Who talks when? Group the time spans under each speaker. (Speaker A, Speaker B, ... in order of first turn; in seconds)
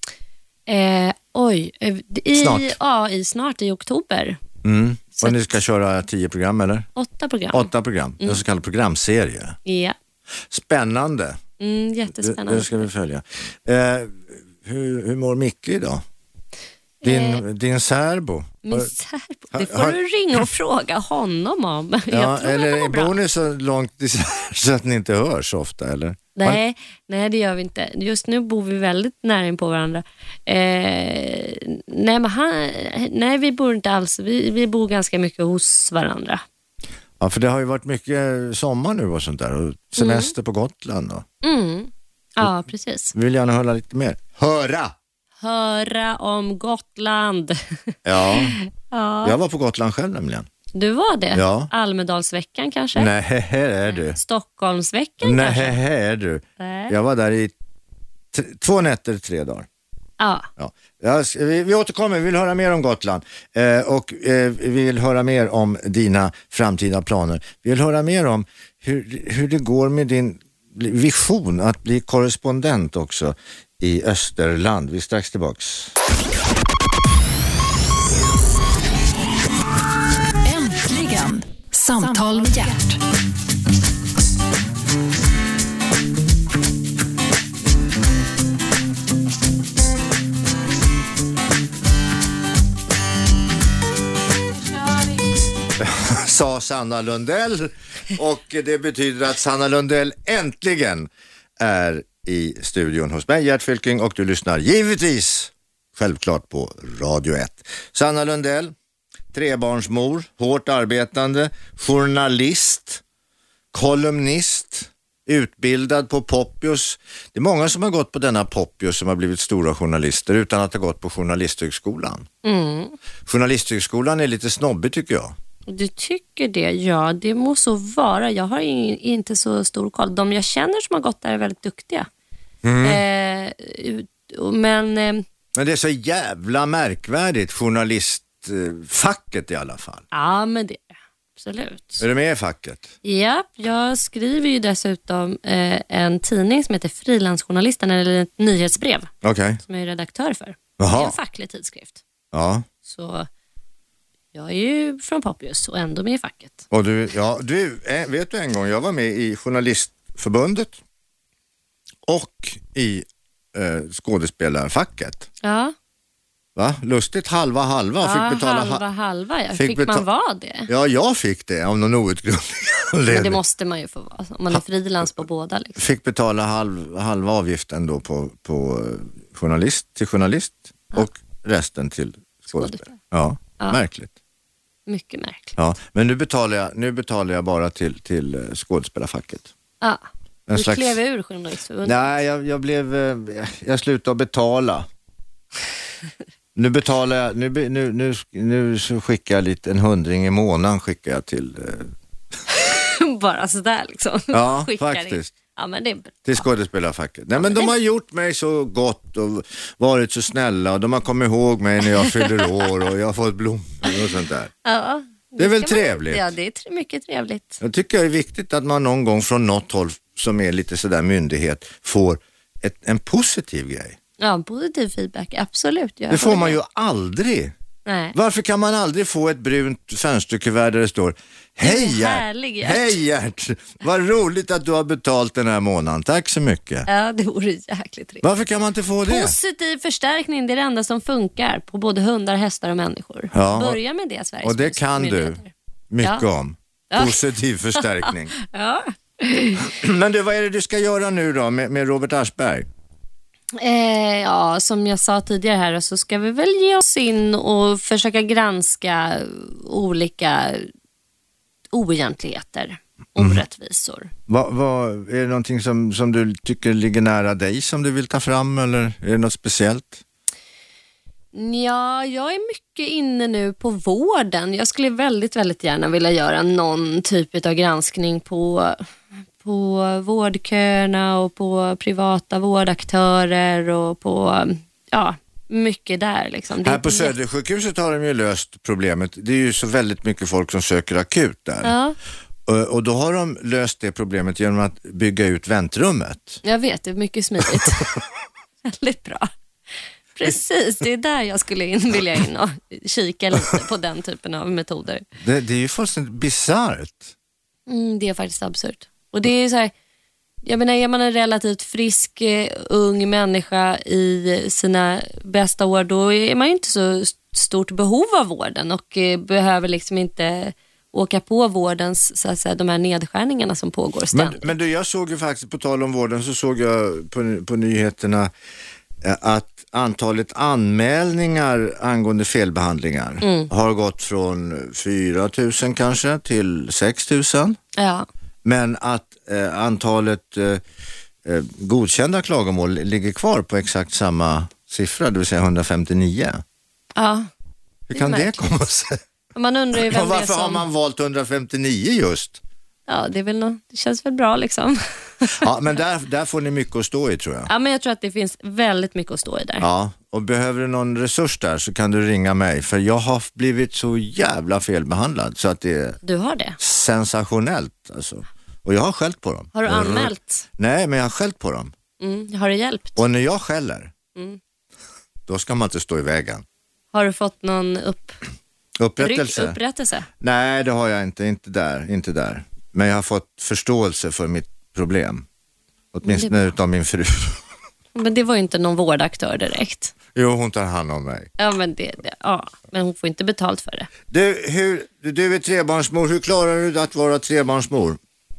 Speaker A: 0.7-4.4, 7.0-7.7, 9.6-9.9, 11.6-12.9, 17.0-17.4, 18.6-23.1, 26.3-36.4, 40.0-40.3, 41.4-43.1, 45.4-49.4, 50.7-53.1, 53.9-55.8, 56.6-56.9, 60.2-60.5, 122.4-122.9, 125.7-132.1, 132.8-135.2, 140.1-142.0, 143.0-152.0, 152.8-153.3, 154.3-156.6, 165.4-165.7, 168.0-170.7, 173.1-175.8, 182.5-182.9, 184.9-185.5, 189.8-192.0, 202.5-206.3, 207.4-207.7, 212.1-212.4, 214.6-217.6, 224.2-226.6, 227.8-228.2, 231.6-233.0, 236.9-238.3, 239.0-246.2, 246.9-247.2, 247.8-249.7, 253.6-260.7, 261.7-264.1, 271.3-278.8, 279.4-287.1, 291.6-292.0, 296.4-297.9, 298.6-299.3, 300.1-305.0, 307.7-309.7, 310.4-324.5, 333.2-333.5, 337.8-338.1, 346.9-347.3, 347.9-348.4, 349.3-350.6, 352.9-355.4, 357.5-359.6, 366.0-366.6, 369.5-370.4, 372.0-373.0, 376.9-378.2, 379.0-380.1, 386.0-386.5, 387.9-389.9, 391.4-393.9
Speaker B: 2.3-2.8, 4.6-6.9, 7.5-9.6, 10.5-11.4, 12.2-16.0, 17.0-18.9, 19.5-20.0, 22.1-26.6, 37.2-41.2, 43.1-44.9, 48.0-48.6, 49.2-50.5, 51.3-51.7, 52.9-54.2, 55.2-57.5, 58.3-59.7, 60.6-75.9, 95.8-108.7, 109.3-113.0, 113.7-122.3, 123.2-125.3, 132.6-133.0, 135.6-140.0, 142.0-142.9, 149.2-149.6, 150.8-151.2, 152.3-152.6, 156.7-160.8, 162.1-165.3, 166.6-168.8, 169.5-170.0, 170.7-173.4, 175.8-184.1, 185.6-189.5, 190.5-191.0, 191.8-194.9, 196.5-201.9, 204.3-205.3, 206.2-214.5, 215.4-216.3, 217.6-224.0, 226.1-227.5, 228.1-236.9, 238.2-239.3, 243.3-243.8, 244.4-245.4, 245.9-248.3, 249.6-252.7, 264.3-270.0, 286.6-291.7, 292.4-296.4, 305.2-307.1, 324.1-328.3, 329.0-337.6, 338.4-340.6, 341.2-346.4, 347.9-349.0, 349.7-352.4, 355.4-357.5, 359.6-366.0, 366.6-371.7, 373.0-373.9, 375.3-376.4, 378.8-379.6, 380.2-385.2, 385.9-387.4, 390.1-391.3, 394.1-398.0
Speaker C: 80.4-83.0